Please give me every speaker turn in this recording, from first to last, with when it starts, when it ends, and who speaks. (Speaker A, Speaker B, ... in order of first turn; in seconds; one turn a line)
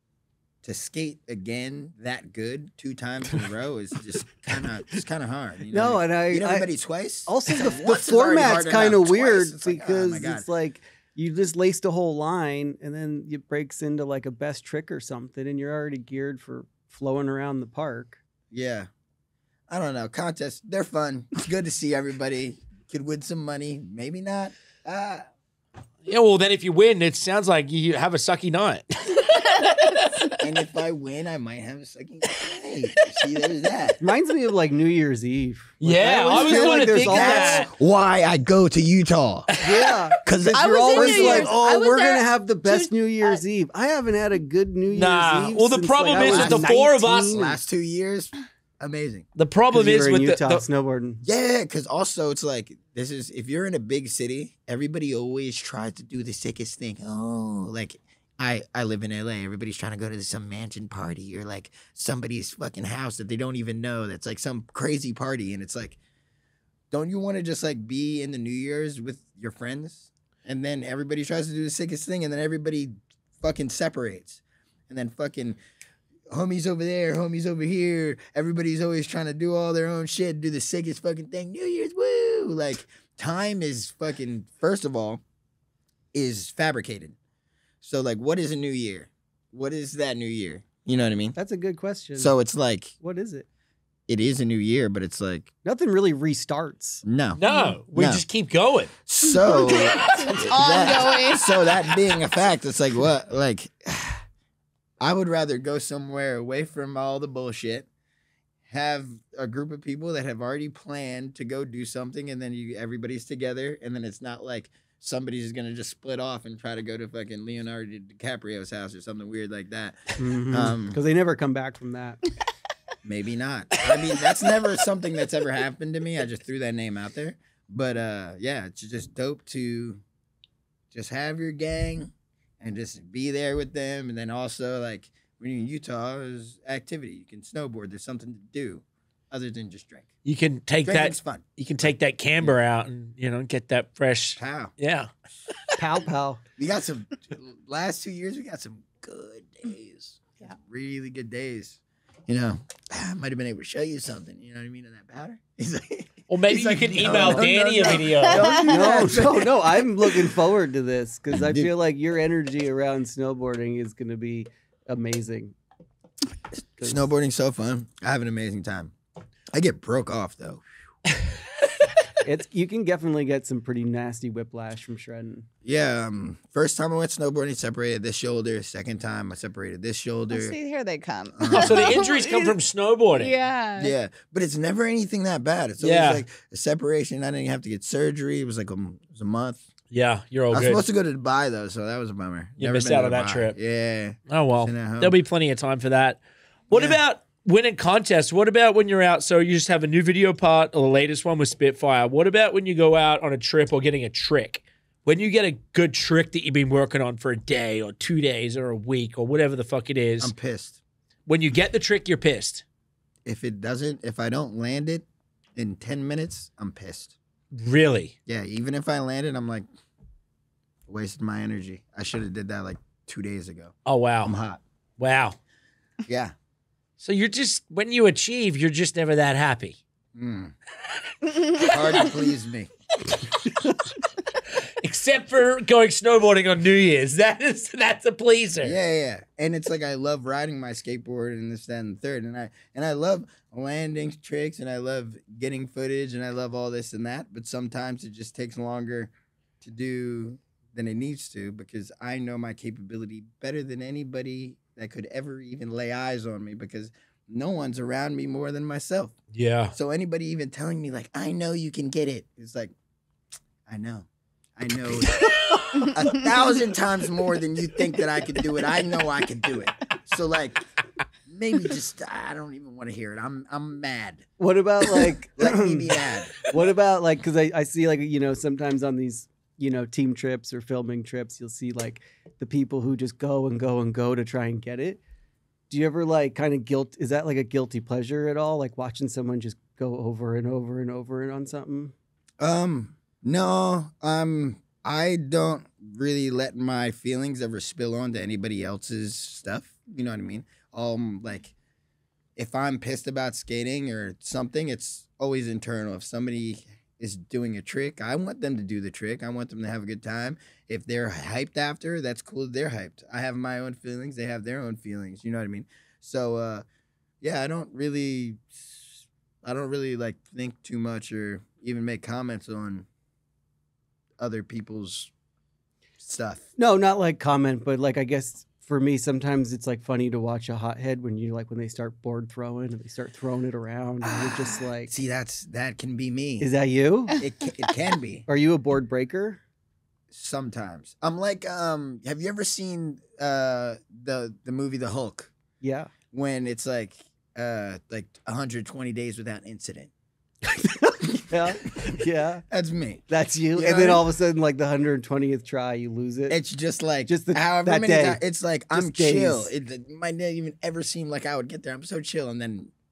Speaker A: 0.6-10.5
Speaker B: 5.7-6.7
Speaker B: 7.3-18.2
Speaker A: 18.5-18.9
Speaker A: 19.7-25.2
Speaker C: 26.0-30.2
Speaker A: 30.4-34.0
Speaker B: 34.0-37.7
Speaker C: 35.8-37.7
Speaker A: 36.3-39.5
Speaker C: 39.5-40.0
Speaker B: 39.6-47.6
Speaker A: 40.2-41.6
Speaker D: 40.5-43.4
Speaker C: 44.9-47.3
Speaker A: 46.1-46.8
Speaker A: 47.3-49.2
Speaker C: 49.3-50.6
Speaker B: 49.7-51.2
Speaker A: 51.2-66.0
Speaker A: 66.9-75.6
Speaker A: 76.3-85.2
Speaker A: 86.1-87.2
Speaker A: 87.8-91.4
Speaker B: 91.3-92.3
Speaker A: 92.1-92.9
Speaker B: 93.0-93.5
Speaker A: 94.1-95.5
Speaker B: 95.6-97.0
Speaker A: 97.0-97.4
Speaker C: 97.3-98.9
Speaker D: 97.5-97.8
Speaker A: 97.9-98.2
Speaker A: 99.0-104.2
Speaker D: 99.2-101.9
Speaker A: 105.0-107.9
Speaker A: 108.7-121.0
Speaker B: 120.2-122.2
Speaker A: 123.0-130.0
Speaker A: 130.9-140.1
Speaker C: 140.2-145.1
Speaker A: 140.8-142.6
Speaker A: 144.4-144.7
Speaker B: 145.8-146.4
Speaker A: 146.6-160.2
Speaker C: 156.3-158.6
Speaker B: 157.0-157.5
Speaker D: 158.3-158.9
Speaker B: 158.4-165.5
Speaker A: 161.3-161.7
Speaker A: 166.8-168.9
Speaker A: 169.5-170.6
Speaker B: 172.2-175.5
Speaker A: 175.6-180.6
Speaker D: 180.3-182.6
Speaker A: 181.3-182.0
Speaker C: 181.5-183.3
Speaker D: 183.1-183.9
Speaker A: 183.8-189.6
Speaker C: 185.8-186.2
Speaker C: 189.9-190.8
Speaker A: 190.5-195.2
Speaker C: 192.6-193.6
Speaker C: 194.3-210.3
Speaker A: 196.7-197.0
Speaker A: 210.2-210.8
Speaker C: 211.3-212.6
Speaker A: 213.2-215.0
Speaker A: 215.6-217.2
Speaker C: 217.5-218.1
Speaker A: 218.2-219.6
Speaker A: 220.9-224.6
Speaker C: 223.8-224.3
Speaker C: 225.0-225.4
Speaker A: 226.0-226.3
Speaker C: 227.0-229.8
Speaker A: 230.1-230.5
Speaker A: 231.5-232.7
Speaker C: 234.8-238.8
Speaker A: 238.6-259.1
Speaker C: 259.3-259.7
Speaker A: 259.7-262.7
Speaker A: 263.6-270.6
Speaker A: 271.2-274.3
Speaker B: 274.4-285.0
Speaker A: 274.8-276.4
Speaker B: 285.7-291.9
Speaker A: 292.4-301.5
Speaker A: 302.4-316.6
Speaker A: 317.2-322.9
Speaker A: 324.2-325.1
Speaker A: 326.0-326.5
Speaker B: 326.6-334.9
Speaker A: 334.0-336.5
Speaker B: 336.4-337.2
Speaker A: 337.1-338.2
Speaker B: 338.3-339.4
Speaker A: 340.1-345.3
Speaker B: 345.6-345.9
Speaker A: 346.1-349.9
Speaker B: 350.5-352.4
Speaker A: 351.0-351.9
Speaker A: 352.5-354.0
Speaker B: 353.1-356.4
Speaker A: 356.3-362.7
Speaker B: 357.1-358.2
Speaker B: 358.7-359.5